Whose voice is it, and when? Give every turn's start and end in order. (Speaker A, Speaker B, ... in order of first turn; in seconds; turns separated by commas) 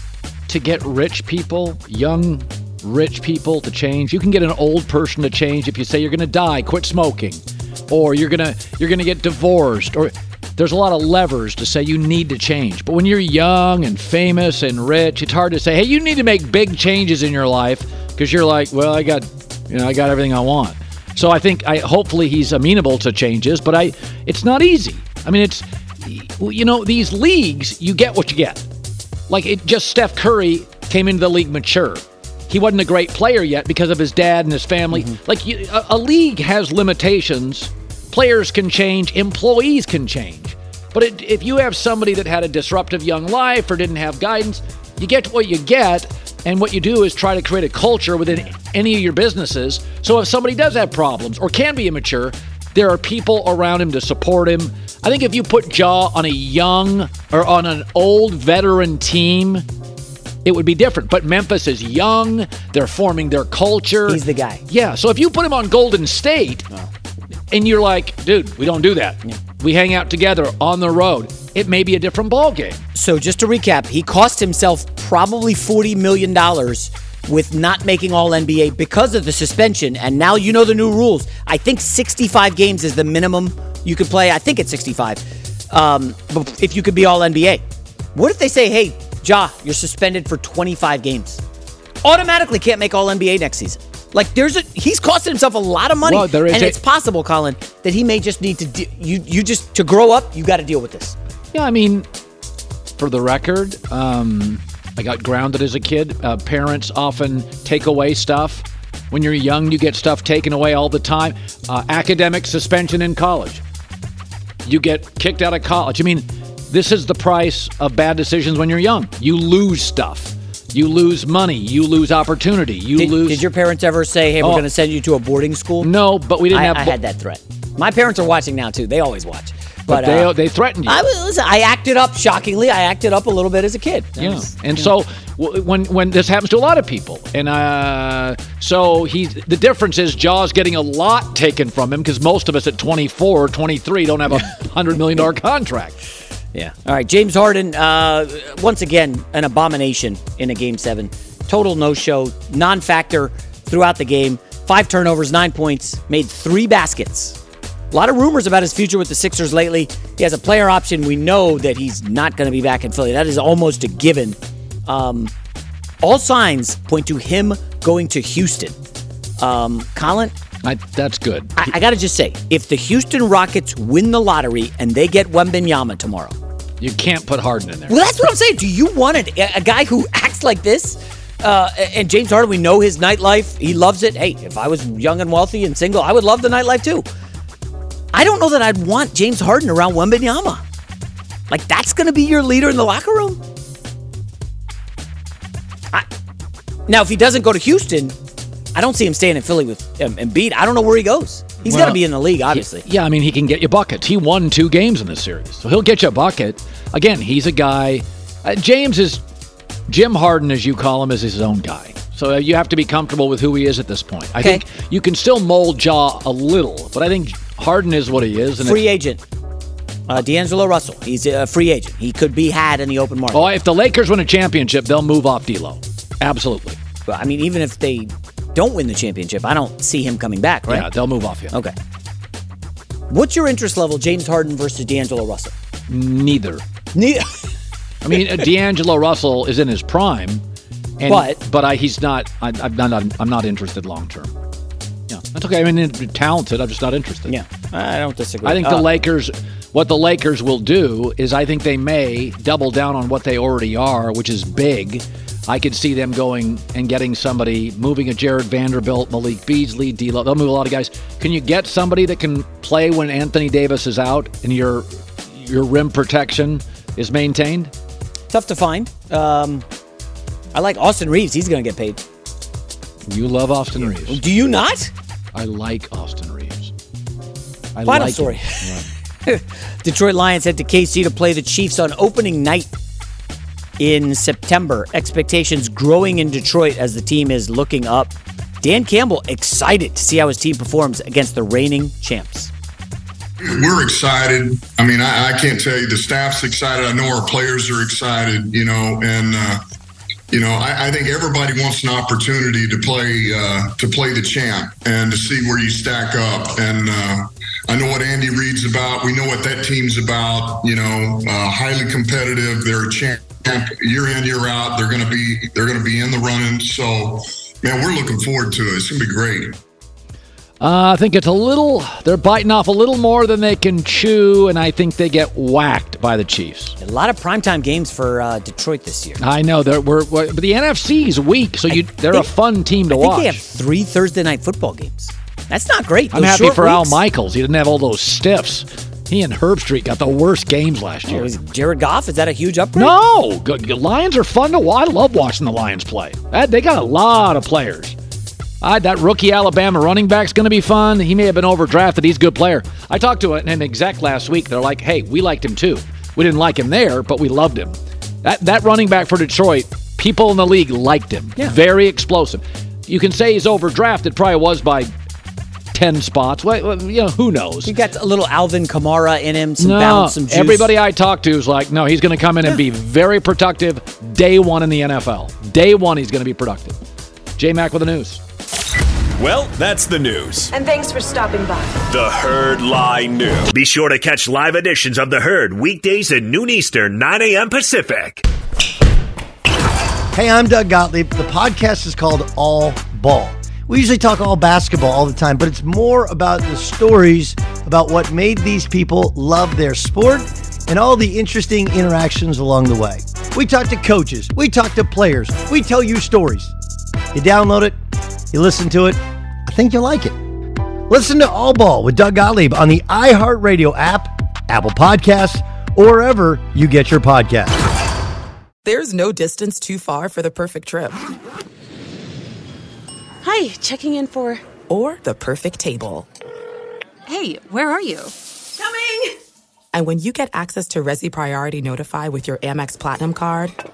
Speaker A: 0.5-28.7, Speaker A: 29.3-59.6, Speaker A: 60.5-66.7, Speaker B: 64.1-64.6, Speaker A: 67.5-72.8, Speaker B: 73.0-87.6, Speaker B: 88.2-91.4, Speaker B: 92.0-101.2, Speaker A: 96.0-96.8, Speaker A: 101.5-102.1, Speaker A: 103.0-113.6, Speaker A: 114.7-123.4, Speaker B: 123.0-125.9, Speaker A: 125.8-127.0, Speaker B: 126.5-130.3, Speaker A: 129.9-131.0, Speaker B: 130.9-134.9, Speaker A: 134.2-146.0, Speaker B: 146.5-157.4, Speaker B: 157.9-165.3, Speaker B: 166.0-168.8, Speaker B: 169.4-170.3, Speaker A: 170.6-171.7, Speaker B: 171.6-176.3, Speaker A: 176.8-178.0, Speaker B: 177.9-187.1, Speaker B: 188.1-190.6, Speaker B: 191.5-193.4, Speaker B: 196.9-198.2, Speaker B: 198.8-202.8, Speaker A: 201.6-209.2, Speaker A: 209.9-218.8, Speaker B: 218.6-219.2, Speaker B: 220.1-223.5, Speaker A: 223.3-226.8, Speaker B: 227.1-230.9, Speaker A: 230.7-231.5, Speaker B: 233.1-235.5, Speaker A: 235.9-236.6, Speaker B: 236.9-237.5, Speaker A: 238.0-240.4, Speaker A: 241.0-244.3, Speaker B: 241.1-241.4, Speaker A: 245.1-247.3, Speaker B: 247.3-248.9, Speaker A: 248.4-267.7, Speaker B: 268.3-269.6, Speaker B: 270.5-272.0, Speaker A: 273.1-274.2, Speaker B: 274.1-274.9, Speaker A: 275.4-276.7, Speaker A: 277.8-278.9, Speaker B: 277.9-282.7, Speaker B: 283.8-292.5, Speaker C: 293.4-299.6, Speaker C: 300.3-319.6, Speaker A: 320.6-326.8, Speaker B: 326.8-329.2, Speaker A: 329.2-333.4, Speaker B: 331.7-332.3, Speaker B: 332.9-337.0, Speaker A: 336.1-341.3, Speaker B: 341.1-342.9, Speaker A: 342.8-348.0, Speaker A: 348.6-364.9, Speaker A: 365.7-367.7, Speaker B: 367.7-370.7, Speaker A: 369.6-376.8, Speaker A: 377.4-378.2, Speaker D: 379.2-380.5, Speaker E: 380.5-381.8, Speaker D: 381.9-388.2, Speaker F: 390.1-406.5, Speaker F: 407.1-407.8, Speaker F: 408.3-410.2, Speaker F: 410.9-417.6, Speaker G: 418.6-421.0, Speaker E: 423.2-424.4, Speaker G: 424.7-426.1, Speaker E: 427.1-428.8, Speaker G: 429.7-433.6